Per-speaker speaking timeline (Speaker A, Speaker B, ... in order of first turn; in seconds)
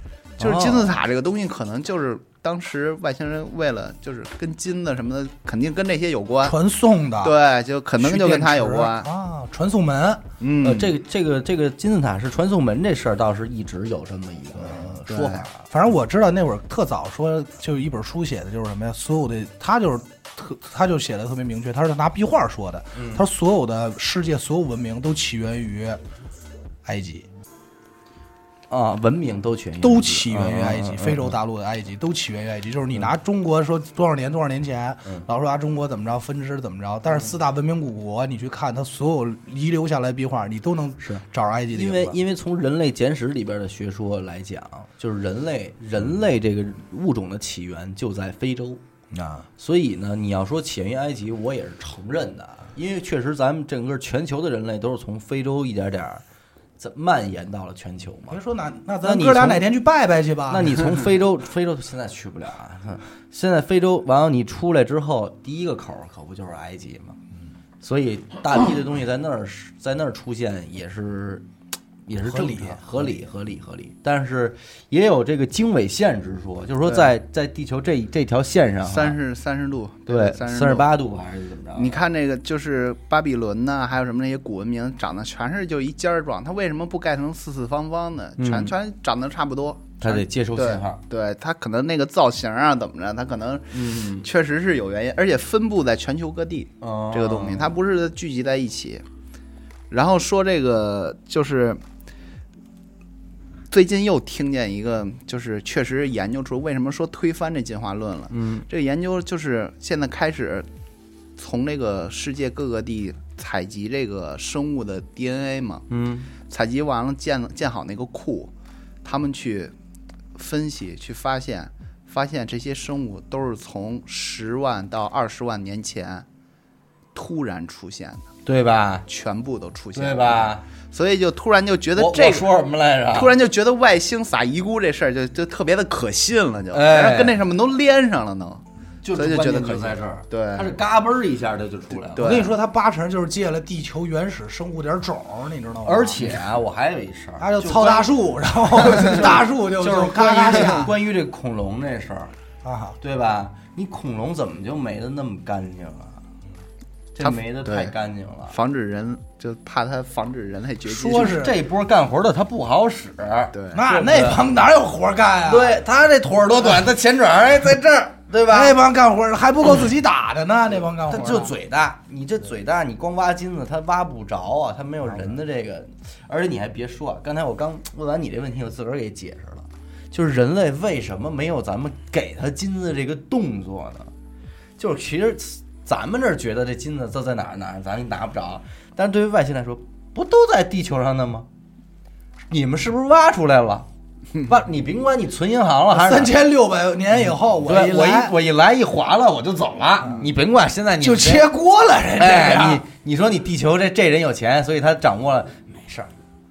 Speaker A: 0.4-0.9, 10.6-15.6, 22.9-23.2, 28.7-31.4, 41.0-48.8, 49.6-56.2, 56.8-58.4, 59.0-59.7, 60.5-67.2, 67.8-71.5, 72.1-79.2, 80.1-82.0, 88.4-88.7, 90.0-91.0, 93.7-94.3, 96.8-97.8, 108.3-108.7, 115.9-116.3, 128.4-129.1, 129.9-130.6, 132.0-133.3, 136.7-137.4, 139.0-142.4, 145.8-148.1, 148.8-152.3, 153.0-156.2, 157.2-158.5, 161.1-164.4, 165.4-168.8, 171.1-184.1, 184.8-191.5, 192.5-193.9, 194.4-196.3, 197.6-201.5, 202.2-206.1
Speaker B: 0.4-6.6, 7.2-9.1, 10.4-10.9, 15.0-15.4, 78.8-80.9, 81.7-99.0, 99.9-101.8, 103.7-110.7, 111.4-115.8, 116.5-118.5, 119.0-119.7, 120.3-126.2, 127.1-128.2, 129.1-132.6, 133.1-140.7, 141.9-142.6, 150.5-150.9, 157.2-157.9, 158.5-161.4, 163.5-163.8
Speaker C: 6.4-7.3, 8.0-10.2, 15.7-26.0, 26.9-27.3, 29.8-42.2, 49.1-49.5, 58.3-61.0, 72.2-73.2, 142.2-146.4, 147.4-150.9, 152.6-153.0, 160.8-161.6, 163.7-165.8, 168.5-171.6, 195.9-198.3, 201.0-202.8